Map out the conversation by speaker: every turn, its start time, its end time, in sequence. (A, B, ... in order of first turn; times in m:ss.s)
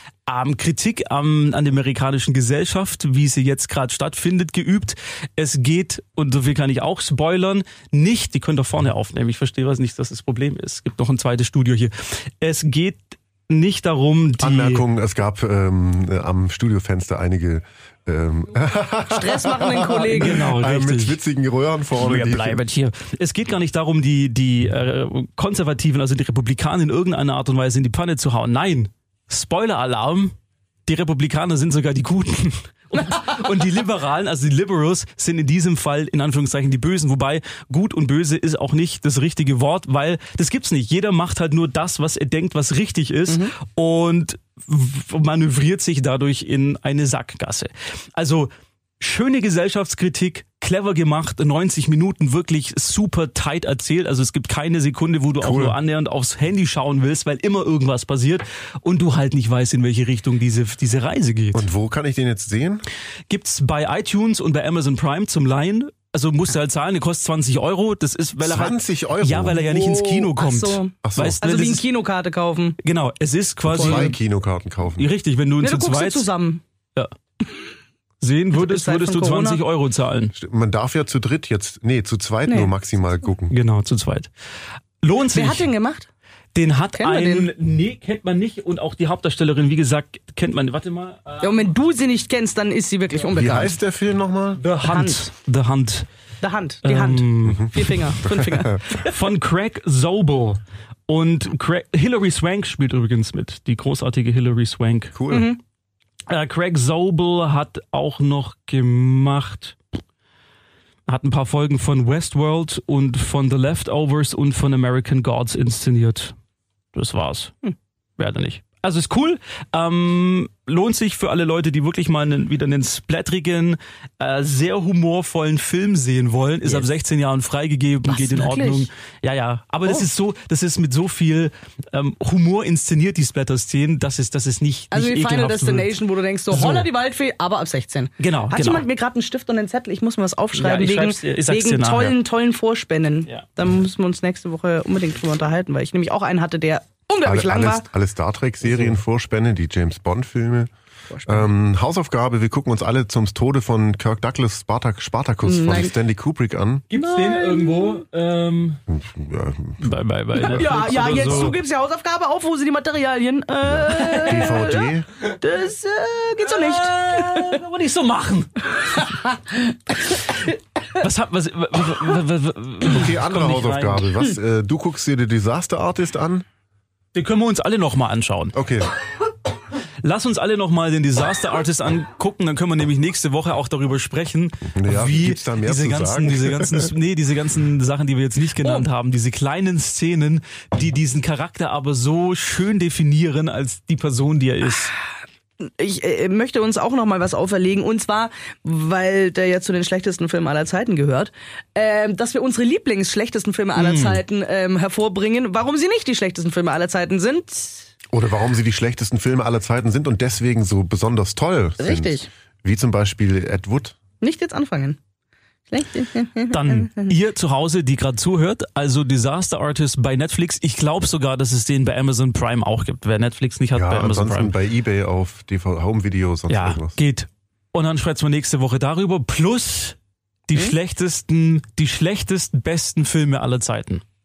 0:00.3-0:14.8 A
0:14.4-0:22.6 B
0:19.1-0:20.4 C
0:20.2-0:21.2 A
0:22.0-0:30.3 A
0:30.8-0:48.5 A
0:43.3-0:43.5 C
0:49.0-1:01.7 A
0:55.4-0:55.8 B
1:01.5-1:02.8 B
1:03.3-1:11.8 A
1:08.4-1:10.3 B
1:10.3-1:12.8 C
1:11.0-1:11.4 B
1:12.8-1:14.2 A
1:13.7-1:15.1 B
1:13.7-1:14.1 C
1:15.0-1:16.3 A
1:15.6-1:16.6 C
1:18.2-1:20.3 A
1:18.5-1:19.6 C
1:20.3-1:23.5 B
1:22.5-1:22.7 C
1:23.5-1:24.3 A
1:25.0-1:25.7 A
1:25.3-1:26.1 C
1:26.5-1:31.7 A
1:26.9-1:27.5 C
1:31.4-1:33.8 C
1:33.3-1:34.6 B
1:34.6-1:36.1 A
1:34.8-1:35.2 C
1:36.4-1:39.1 C
1:36.8-1:38.2 A
1:38.2-1:38.8 B
1:38.9-1:45.2 A
1:45.1-1:45.5 B
1:45.3-1:45.6 C
1:46.3-1:49.8 A
1:51.1-1:56.4 A
1:56.9-1:57.5 A
1:58.2-2:15.9 A
2:08.1-2:08.9 C
2:14.9-2:27.9 C
2:16.5-2:16.9 A
2:18.2-2:18.8 A
2:20.5-2:22.2 A
2:27.2-2:30.7 B
2:31.1-2:31.5 C
2:31.3-2:36.8 B
2:35.4-2:35.9 C
2:36.9-2:38.8 A
2:36.9-2:38.0 C
2:38.9-2:39.8 B
2:39.8-2:41.6 A
2:40.3-2:47.6 C
2:43.6-2:45.1 B
2:46.4-2:48.7 A
2:49.0-2:49.6 C
2:51.0-2:54.2 A
2:52.8-2:56.4 B
2:57.1-2:58.5 A
2:58.5-2:58.9 B
3:00.0-3:14.9 A
3:04.7-3:06.9 B
3:15.6-3:27.9 C
3:23.8-3:24.2 A
3:28.1-3:34.0 B
3:31.8-3:32.3 C
3:34.2-3:35.0 C
3:35.7-3:37.1 C
3:36.5-3:44.5 A
3:43.7-3:47.0 B
3:46.5-3:50.0 A
3:50.5-3:54.0 A